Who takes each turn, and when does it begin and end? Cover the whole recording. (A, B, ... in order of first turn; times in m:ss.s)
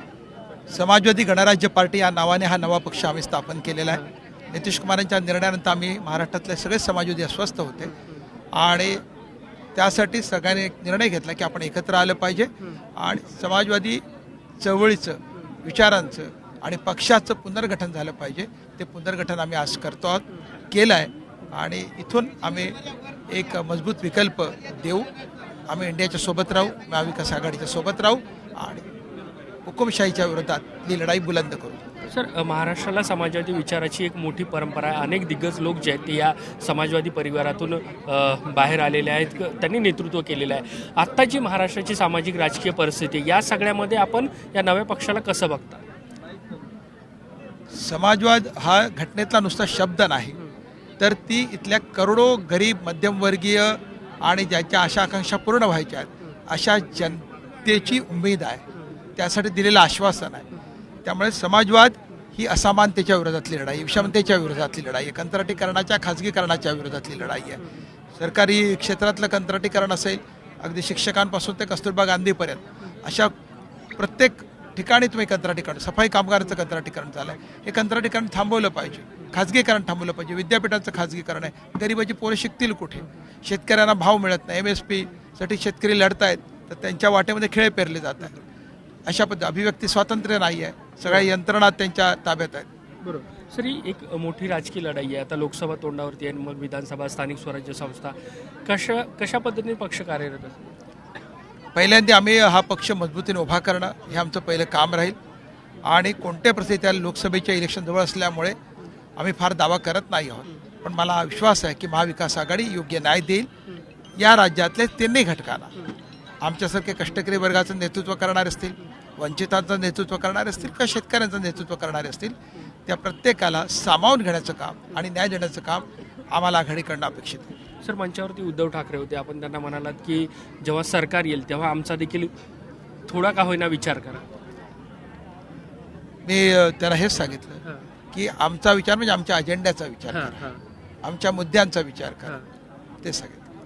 0:00.7-0:07.9 A
0:08.6-0:09.0 A
0:09.8-0:14.0 A
0:14.6-0:22.8 A
0:23.3-0:25.1 A
0:25.7-0:28.9 A
0:29.6-0:31.8 A
0:32.1-0:45.8 B
0:47.7-0:50.4 A
0:51.0-0:58.6 A
0:59.2-1:00.5 A
1:01.0-1:07.6 A
1:08.2-1:13.3 A
1:14.0-1:28.4 A
1:29.1-1:32.7 A
1:33.0-1:38.2 B
1:38.7-1:40.7 B
1:41.8-1:45.2 A
1:45.8-1:48.6 A
1:49.2-1:53.5 A
1:54.2-1:55.8 A
1:56.4-2:02.4 A
2:02.9-2:07.6 A
2:07.8-2:12.3 B
2:13.1-2:14.2 B
2:16.3-2:17.6 A
2:18.1-2:20.4 A
2:20.2-2:20.6 B
2:21.0-2:22.4 A
2:23.0-2:23.4 A